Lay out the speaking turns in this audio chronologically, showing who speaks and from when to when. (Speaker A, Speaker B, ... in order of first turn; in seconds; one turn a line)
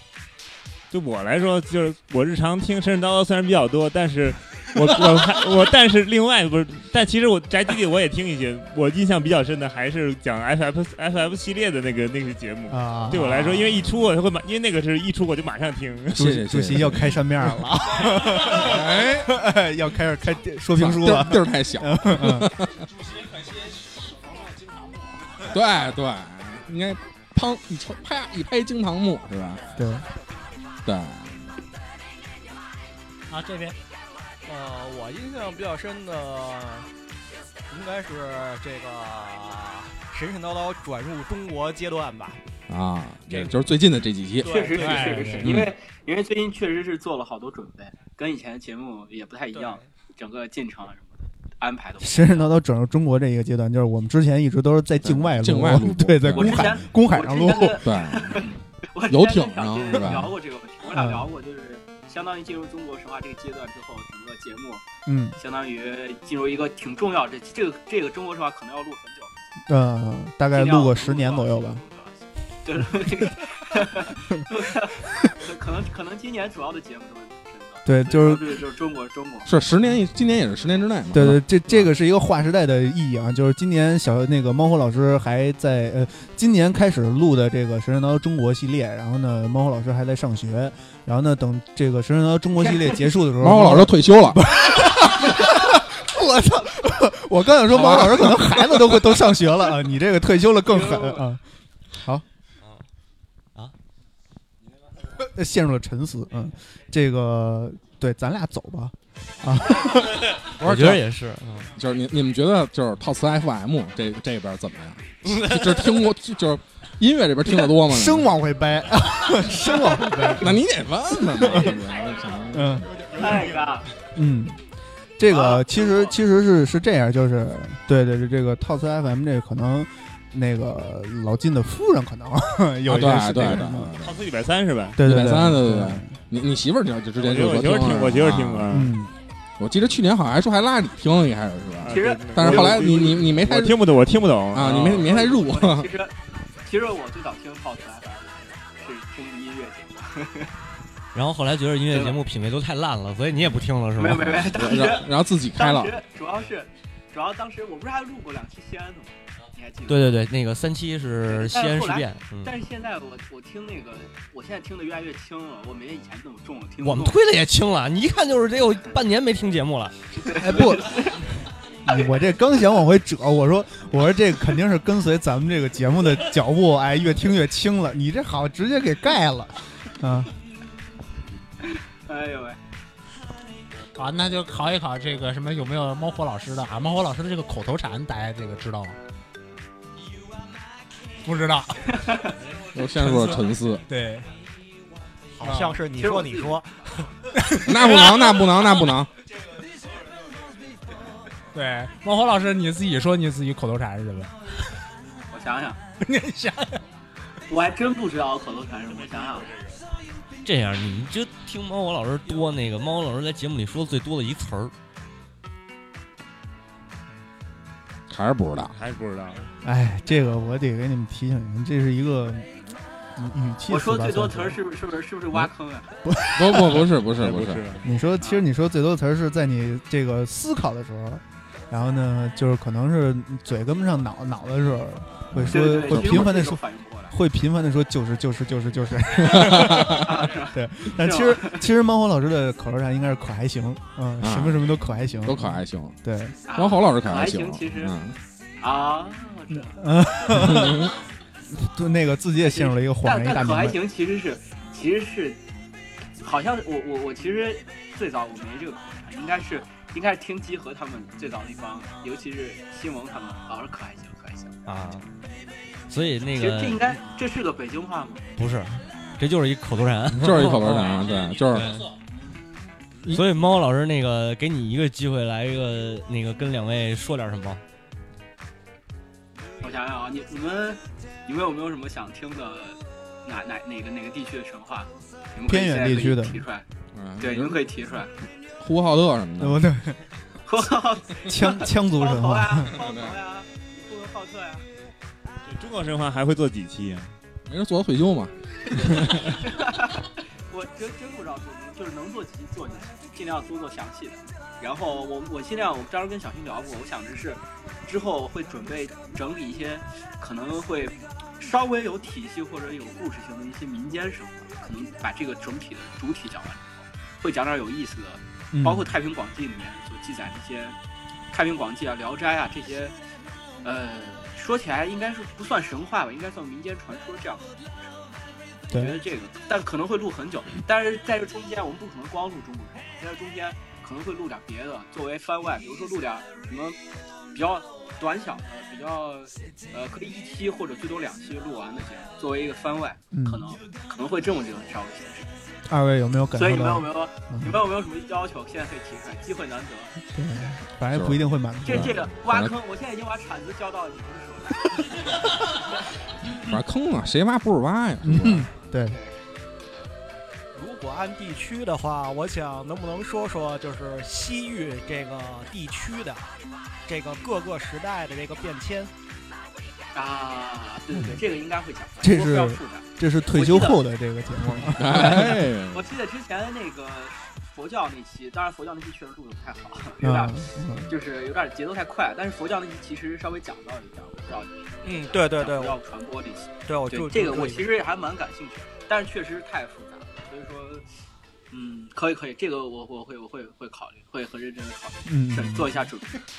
Speaker A: 0.9-16.2
Speaker B: 12.7-13.8
Speaker C: 16.1-17.1
Speaker B: 16.1-22.5
Speaker C: 18.5-19.3
Speaker C: 20.8-22.8
Speaker C: 25.4-29.7
Speaker B: 29.8-30.1
Speaker C: 30.9-31.4
Speaker D: 33.3-33.8
Speaker E: 34.5-36.9
Speaker E: 37.7-42.4
Speaker C: 42.7-44.5
Speaker E: 44.4-45.2
Speaker F: 44.5-52.5
Speaker D: 44.7-45.5
Speaker C: 45.4-45.7
Speaker B: 52.0-57.8
Speaker C: 55.0-56.8
Speaker F: 56.4-64.8
Speaker C: 57.8-58.5
Speaker C: 59.1-60.4
Speaker B: 60.9-61.3
Speaker B: 65.1-65.4
Speaker F: 65.4-69.3
Speaker B: 69.7-71.8
Speaker F: 70.5-79.5
Speaker B: 72.8-73.3
Speaker B: 77.8-78.5
Speaker C: 79.5-81.8
Speaker B: 81.1-101.4
Speaker F: 92.6-93.0
Speaker C: 93.4-94.4
Speaker C: 97.7-98.4
Speaker F: 100.7-101.2
Speaker B: 102.0-102.2
Speaker B: 105.2-110.2
Speaker G: 110.6-111.7
Speaker C: 110.6-111.0
Speaker C: 111.8-118.3
Speaker B: 117.8-120.6
Speaker C: 120.2-122.8
Speaker B: 121.3-121.8
Speaker B: 122.5-122.9
Speaker F: 123.2-123.9
Speaker B: 124.2-124.6
Speaker B: 125.2-133.9
Speaker F: 125.3-126.2
Speaker C: 132.9-134.2
Speaker A: 134.0-135.0
Speaker B: 135.0-136.1
Speaker C: 135.0-138.7
Speaker A: 137.2-138.9
Speaker B: 138.7-139.1
Speaker C: 139.6-143.8
Speaker A: 141.8-145.1
Speaker F: 141.9-143.1
Speaker C: 144.5-145.9
Speaker F: 145.0-146.1
Speaker F: 146.6-150.5
Speaker G: 151.1-154.4
Speaker F: 151.9-152.2
Speaker F: 154.0-160.2
Speaker C: 154.4-155.9
Speaker G: 159.9-162.6
Speaker F: 161.3-167.2
Speaker G: 166.8-169.9
Speaker F: 170.2-171.2
Speaker B: 170.4-171.1
Speaker B: 171.8-180.3
Speaker F: 181.6-182.6
Speaker D: 184.0-189.0
Speaker D: 191.2-191.8
Speaker F: 191.9-192.3
Speaker C: 192.7-193.8
Speaker D: 193.0-193.4
Speaker D: 193.9-194.3
Speaker E: 195.3-197.0
Speaker D: 195.4-195.8
Speaker F: 196.0-196.6
Speaker C: 197.7-199.1
Speaker D: 201.5-204.3
Speaker F: 205.3-205.8
Speaker D: 206.0-206.8
Speaker F: 207.5-209.5
Speaker G: 210.4-214.7
Speaker C: 218.1-218.8
Speaker A: 218.7-219.5
Speaker B: 219.6-222.5
Speaker B: 223.2-224.6
Speaker F: 223.7-225.9
Speaker B: 226.1-226.9
Speaker C: 226.4-227.7
Speaker A: 227.2-227.8
Speaker B: 227.8-246.4
Speaker C: 235.3-236.3
Speaker F: 235.5-237.2
Speaker C: 239.3-240.1
Speaker F: 240.0-241.6
Speaker C: 244.2-244.6
Speaker C: 245.2-245.9
Speaker F: 246.5-247.9
Speaker C: 246.6-248.2
Speaker F: 248.6-249.8
Speaker B: 249.5-250.9
Speaker C: 250.3-250.9
Speaker B: 251.5-253.8
Speaker F: 252.4-255.4
Speaker F: 256.2-264.6
Speaker G: 264.7-265.1
Speaker G: 265.9-267.0
Speaker F: 266.2-268.3
Speaker G: 268.4-270.9
Speaker C: 270.1-271.7
Speaker G: 271.5-271.9
Speaker G: 273.1-277.6
Speaker F: 279.6-286.6
Speaker B: 285.5-286.4
Speaker C: 286.9-287.6
Speaker F: 287.2-288.1
Speaker C: 288.6-289.6
Speaker B: 289.4-290.0
Speaker F: 290.5-294.6
Speaker B: 291.3-292.7
Speaker C: 292.7-293.2
Speaker A: 295.5-297.1
Speaker C: 297.5-298.3
Speaker F: 299.4-320.8
Speaker B: 318.5-318.9
Speaker F: 321.3-322.9
Speaker F: 323.6-327.9
Speaker B: 328.7-329.0
Speaker F: 328.7-336.8
Speaker F: 337.3-345.3
Speaker B: 343.1-343.4
Speaker B: 345.7-347.6
Speaker F: 346.4-349.9
Speaker B: 350.1-352.0
Speaker C: 350.9-352.5
Speaker F: 351.6-354.9
Speaker C: 356.5-358.5
Speaker B: 358.0-359.0
Speaker E: 360.6-366.3
Speaker E: 366.9-368.9
Speaker F: 369.9-373.8
Speaker B: 370.9-371.2
Speaker B: 372.0-375.3
Speaker C: 374.6-375.9
Speaker F: 374.9-380.3
Speaker B: 380.0-380.9
Speaker F: 380.9-390.9
Speaker E: 384.9-385.8
Speaker E: 386.7-387.8
Speaker F: 391.5-396.1
Speaker B: 395.1-395.8